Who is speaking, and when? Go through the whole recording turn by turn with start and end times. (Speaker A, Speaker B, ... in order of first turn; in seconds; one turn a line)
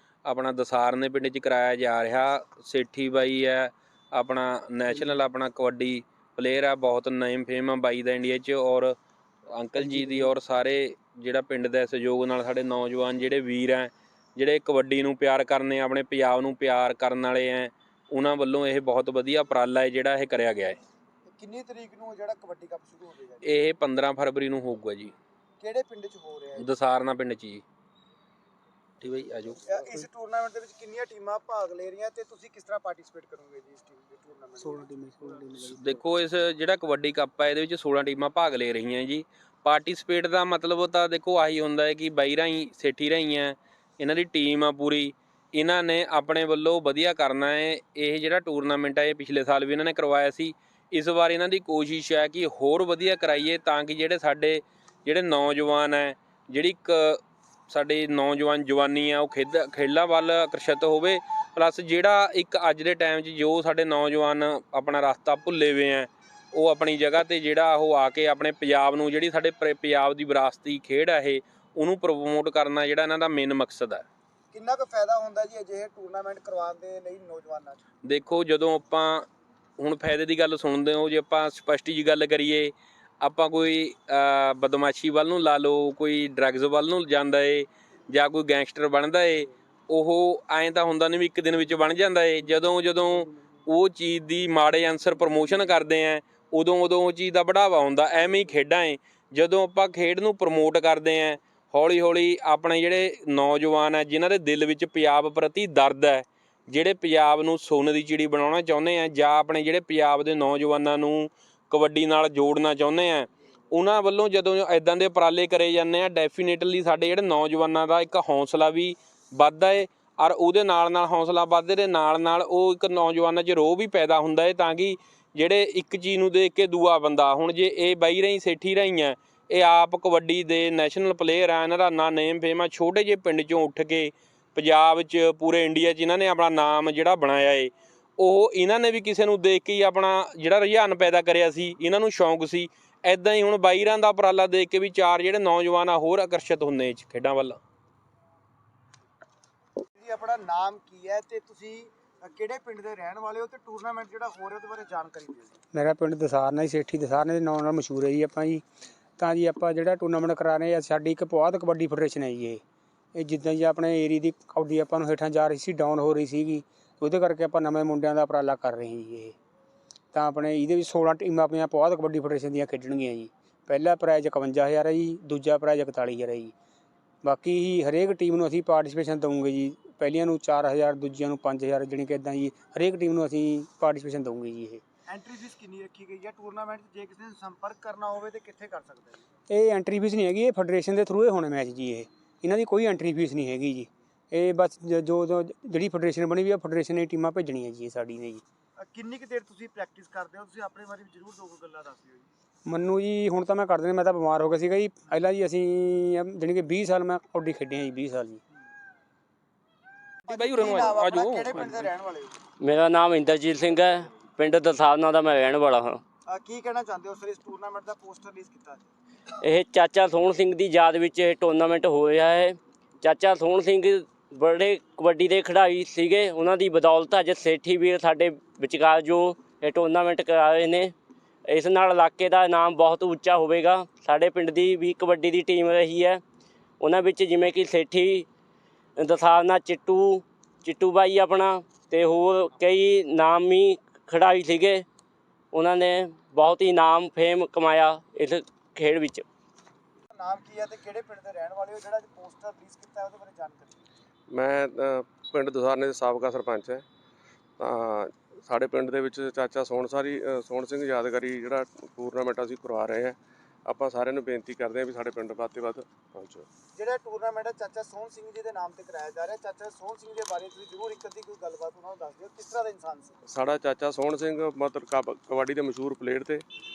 Speaker A: 0.2-8.9
Speaker A: 9.5-20.8
Speaker B: 9.8-10.3
Speaker C: 21.2-23.6
Speaker A: 23.4-25.1
Speaker C: 25.6-26.7
Speaker A: 26.6-27.6
Speaker A: 29.0-29.6
Speaker C: 29.7-35.6
Speaker B: 34.6-36.0
Speaker A: 35.7-74.0
Speaker C: 74.5-77.8
Speaker A: 78.0-79.2
Speaker A: 79.8-147.6
Speaker C: 150.0-155.6
Speaker B: 155.7-158.6
Speaker B: 159.2-162.6
Speaker B: 163.1-169.3
Speaker B: 170.1-176.5
Speaker B: 177.2-184.8
Speaker C: 185.1-189.2
Speaker B: 189.5-198.4
Speaker C: 198.8-202.3
Speaker B: 202.7-208.4
Speaker C: 210.3-212.3
Speaker A: 210.3-211.8
Speaker D: 212.6-216.0
Speaker C: 216.3-218.9
Speaker D: 219.4-230.9
Speaker D: 231.4-236.2
Speaker D: 236.8-238.3
Speaker D: 239.0-244.8
Speaker D: 245.5-249.2
Speaker C: 250.1-253.8
Speaker E: 254.3-256.8
Speaker E: 257.6-266.5
Speaker C: 266.7-273.1
Speaker E: 273.3-276.4